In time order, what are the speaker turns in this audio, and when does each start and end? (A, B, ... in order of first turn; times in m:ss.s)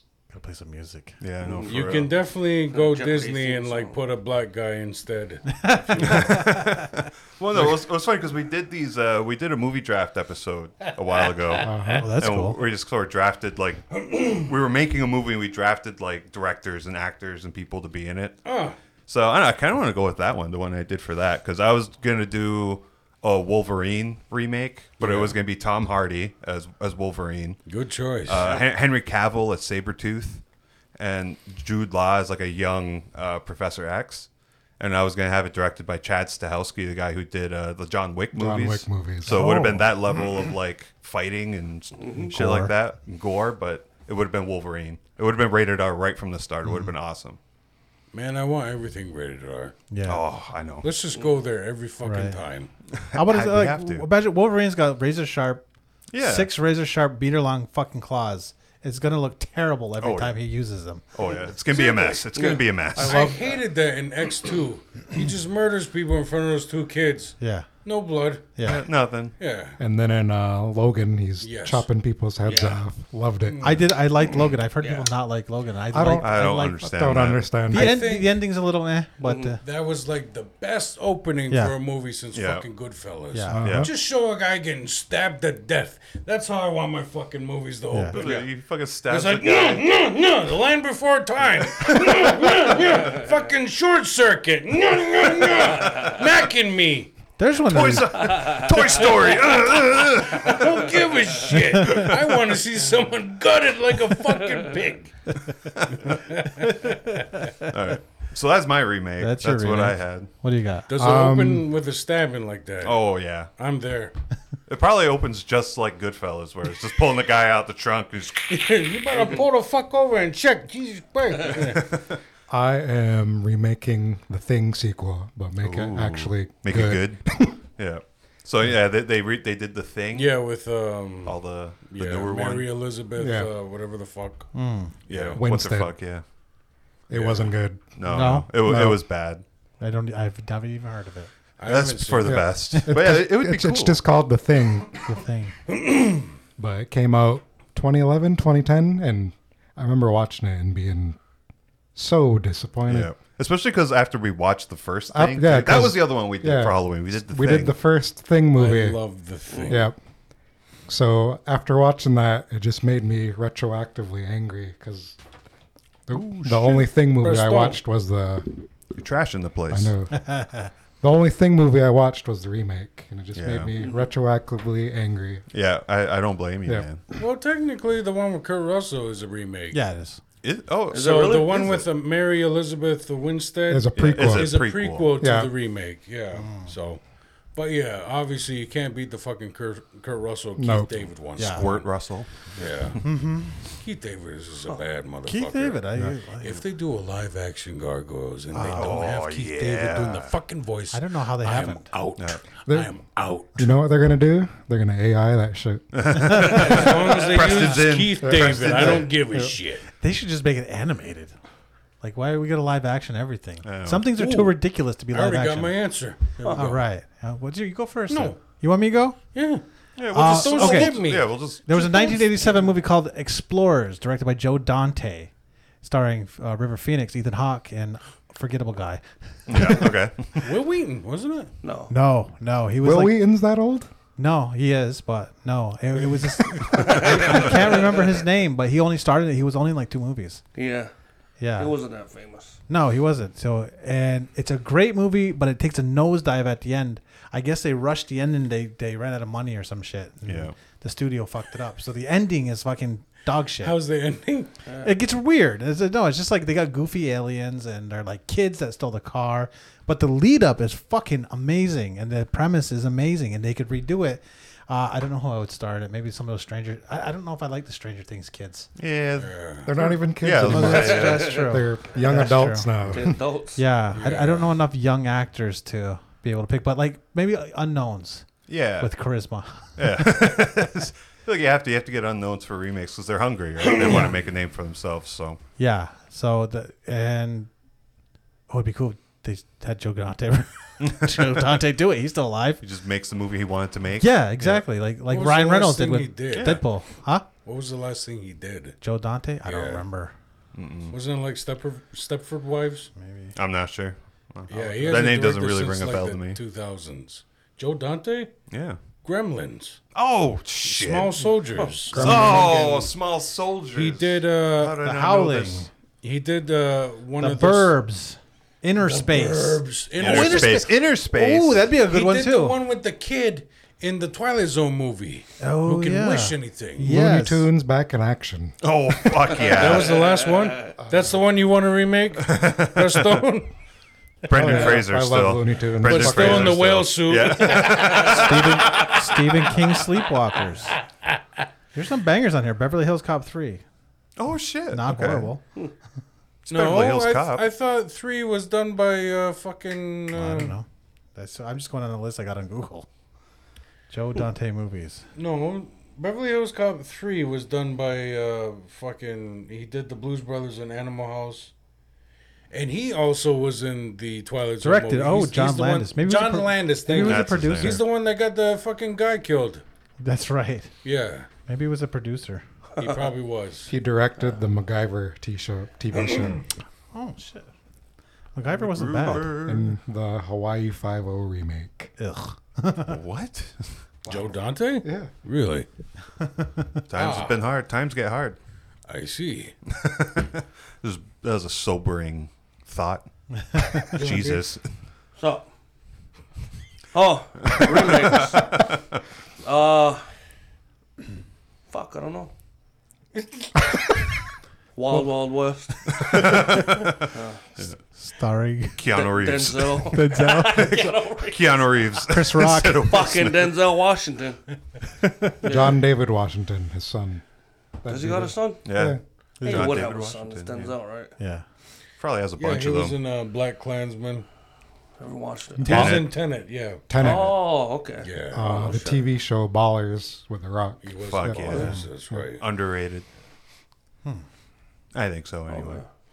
0:00.3-0:01.2 A
0:01.2-0:02.2 B
0:01.4-0:01.7 C
0:01.6-0:06.4 D
0:02.7-0:04.0 C
0:05.5-0:06.9 A
0:06.0-0:18.4 B
0:11.6-0:12.1 E
0:12.0-0:12.6 A
0:14.0-0:14.3 D
0:18.4-0:18.8 D
0:19.1-0:27.6 B
0:25.0-0:25.4 D
0:27.7-0:28.6 D
0:28.2-0:30.4 B
0:31.0-0:47.4 B
0:38.3-0:39.8 E
0:39.3-0:39.9 A
0:42.0-0:42.3 C
0:42.3-0:42.8 A
0:48.1-0:49.8 D
0:49.9-0:50.2 A
0:50.1-0:50.9 B
0:50.8-0:52.7 D
0:52.0-0:52.4 A
0:52.9-0:54.1 B
0:53.1-0:55.6 A
0:56.1-0:56.5 B
0:56.2-1:01.0 A
1:00.0-1:00.4 B
1:01.1-1:03.4 B
1:01.7-1:08.6 D
1:02.4-1:03.4 C
1:07.4-1:07.7 A
1:08.6-1:08.8 A
1:08.6-1:09.4 B
1:09.4-1:09.8 D
1:09.8-1:13.8 E
1:11.4-1:11.9 D
1:12.4-1:12.8 C
1:13.5-1:13.8 D
1:13.6-1:16.8 A
1:14.8-1:15.1 C
1:15.9-1:18.0 E
1:16.2-1:17.6 B
1:17.7-1:18.4 D
1:17.7-1:19.6 A
1:19.2-1:19.5 C
1:19.6-1:28.5 D
1:21.5-1:21.8 A
1:22.3-1:22.7 B
1:23.3-1:23.6 A
1:23.5-1:23.9 E
1:23.6-1:23.9 B
1:27.9-1:28.2 A
1:28.1-1:29.8 B
1:28.2-1:28.5 C
1:29.1-1:37.1 D
1:37.4-1:38.4 A
1:37.6-1:40.9 B
1:38.6-1:39.4 C
1:40.3-1:45.2 D
1:41.5-1:42.1 A
1:45.9-1:46.2 B
1:46.0-1:47.3 D
1:46.6-1:47.7 A
1:47.7-1:50.3 B
1:49.2-1:50.9 A
1:50.9-1:53.0 D
1:51.0-1:51.7 E
1:52.8-1:53.5 B
1:53.6-1:54.1 D
1:54.7-1:58.7 B
1:58.5-2:01.9 D
2:01.7-2:02.2 B
2:02.5-2:07.6 E
2:05.6-2:10.3 B
2:10.1-2:14.6 D
2:11.2-2:12.7 B
2:13.2-2:13.5 E
2:14.5-2:15.0 A
2:15.1-2:15.4 D
2:15.1-2:16.2 B
2:15.4-2:16.0 E
2:17.1-2:19.0 E
2:17.1-2:17.5 D
2:18.0-2:19.4 B
2:18.1-2:18.5 A
2:19.8-2:21.3 A
2:21.6-2:22.5 D
2:21.7-2:24.0 B
2:22.2-2:25.2 E
2:22.7-2:23.0 A
2:25.1-2:25.6 A
2:25.7-2:26.3 D
2:26.6-2:31.2 E
2:32.0-2:33.1 E
2:32.9-2:37.8 B
2:35.1-2:39.0 E
2:38.6-2:39.9 D
2:39.7-2:40.0 E
2:40.9-2:45.2 E
2:46.1-2:48.6 E
2:46.1-2:46.7 B
2:46.7-2:47.8 D
2:48.9-2:49.9 B
2:49.7-2:50.3 E
2:50.1-2:50.7 A
2:51.0-2:55.4 E
2:53.4-2:53.7 B
2:55.5-2:57.1 B
2:57.1-2:59.8 D
2:59.7-3:00.2 A
3:00.4-3:01.9 B
3:00.9-3:01.5 C
3:00.9-3:07.0 D
3:03.7-3:05.5 E
3:04.0-3:05.2 B
3:06.4-3:06.7 A
3:07.5-3:11.9 D
3:10.6-3:11.0 E
3:11.4-3:11.7 A
3:11.4-3:13.0 B
3:12.5-3:13.0 D
3:13.0-3:13.7 A
3:13.6-3:23.7 D
3:15.3-3:16.6 A
3:18.5-3:19.0 A
3:18.8-3:20.4 B
3:20.9-3:21.9 A
3:22.2-3:22.4 B
3:22.7-3:22.9 E
3:23.6-3:26.6 E
3:25.9-3:29.1 B
3:26.4-3:29.8 D
3:26.7-3:27.3 C
3:28.2-3:29.5 E
3:30.0-3:31.4 A
3:32.0-3:35.8 A
3:33.6-3:34.1 B
3:34.1-3:34.6 D
3:35.1-3:36.9 D
3:36.5-3:39.4 A
3:38.1-3:38.6 D
3:39.3-3:42.8 D
3:40.0-3:41.7 B
3:40.1-3:45.3 A
3:45.8-3:49.9 A
3:49.5-3:50.6 B
3:50.4-3:51.5 D
3:51.6-3:51.9 C
3:51.9-3:53.3 A
3:52.8-3:53.9 E
3:54.2-4:00.4 A
3:56.7-3:58.1 C
4:00.6-4:00.9 C
4:01.4-4:01.7 A
4:01.6-4:02.6 C
4:02.7-4:13.8 A
4:10.3-4:10.5 B
4:13.6-4:14.6 D
4:14.8-4:28.7 A
4:28.8-4:31.3 B
4:29.2-4:29.9 D
4:29.6-4:33.2 E
4:30.4-4:32.7 A
4:30.7-4:31.5 C
4:32.9-4:33.6 C
4:33.6-4:40.0 A
4:33.9-4:34.6 D
4:38.5-4:39.0 B
4:39.8-4:45.4 B
4:43.8-4:44.2 A
4:45.6-4:47.5 A
4:48.5-4:52.6 A
4:50.8-4:51.5 B
4:52.6-4:54.6 B
4:54.0-4:57.3 A
4:55.1-4:56.7 D
4:56.3-4:56.6 B
4:57.4-4:58.8 D
4:58.8-5:00.1 A
4:59.4-4:59.9 D
5:00.6-5:01.0 B
5:00.9-5:02.9 D
5:03.0-5:03.4 A
5:03.4-5:06.4 B
5:04.5-5:08.3 D
5:08.5-5:08.8 B
5:09.0-5:09.8 D
5:09.9-5:11.3 B
5:10.6-5:12.9 D
5:11.9-5:12.6 E
5:11.9-5:15.6 B
5:13.7-5:14.8 D
5:14.8-5:15.7 A
5:16.0-5:17.8 D
5:17.2-5:22.6 A
5:18.8-5:20.7 D
5:20.0-5:21.7 B
5:21.8-5:26.9 D
5:25.4-5:27.5 A
5:26.8-5:29.3 E
5:28.6-5:30.1 B
5:29.4-5:33.5 D
5:30.0-5:30.5 C
5:30.8-5:31.2 E
5:32.2-5:33.2 B
5:34.2-5:38.9 B
5:34.3-5:36.8 E
5:34.4-5:34.8 D
5:35.8-5:38.9 D
5:37.9-5:40.8 A
5:41.7-5:43.6 A
5:44.2-5:45.3 B
5:44.7-5:45.4 A
5:46.5-5:47.4 B
5:46.5-5:50.6 D
5:50.1-5:52.9 A
5:53.9-5:55.0 A
5:55.2-6:01.5 D
6:02.5-6:09.6 D
6:04.6-6:07.8 A
6:07.0-6:07.8 B
6:10.0-6:10.7 A
6:10.8-6:11.3 D
6:11.5-6:12.4 A
6:12.8-6:13.7 D
6:13.7-6:16.4 E
6:16.0-6:16.4 D
6:16.9-6:17.5 A
6:18.4-6:19.4 A
6:18.5-6:19.7 B
6:19.4-6:21.9 E
6:22.0-6:23.0 A
6:22.8-6:23.8 B
6:24.1-6:25.7 D
6:24.8-6:25.1 E
6:26.2-6:26.8 A
6:26.9-6:28.4 B
6:26.9-6:27.4 D
6:28.9-6:29.5 D
6:29.7-6:34.7 B
6:33.9-6:34.4 D
6:35.2-6:35.5 C
6:36.9-6:38.6 C
6:37.4-6:38.8 B
6:39.4-6:40.1 C
6:41.7-6:42.3 C
6:43.2-6:43.5 D
6:44.8-6:46.5 C
6:45.9-6:47.8 B
6:47.1-6:47.4 C
6:48.0-6:48.8 A
6:48.8-6:50.0 B
6:48.9-6:52.0 C
6:49.9-6:50.8 A
6:50.5-6:53.5 B
6:52.1-6:53.0 A
6:52.8-6:54.4 C
6:55.4-6:55.8 C
6:55.4-6:57.2 E
6:57.8-6:59.0 E
6:57.9-7:01.1 C
6:58.6-7:00.8 B
6:59.4-6:59.9 A
7:01.2-7:01.4 A
7:02.0-7:03.0 B
7:02.4-7:04.3 D
7:05.0-7:05.8 C
7:05.6-7:06.1 E
7:05.6-7:06.8 D
7:05.7-7:06.2 B
7:06.9-7:07.4 E
7:07.0-7:09.0 C
7:08.0-7:08.9 D
7:08.3-7:11.7 E
7:10.8-7:12.4 D
7:11.1-7:11.8 B
7:12.4-7:13.1 B
7:14.9-7:15.8 B
7:15.5-7:15.9 C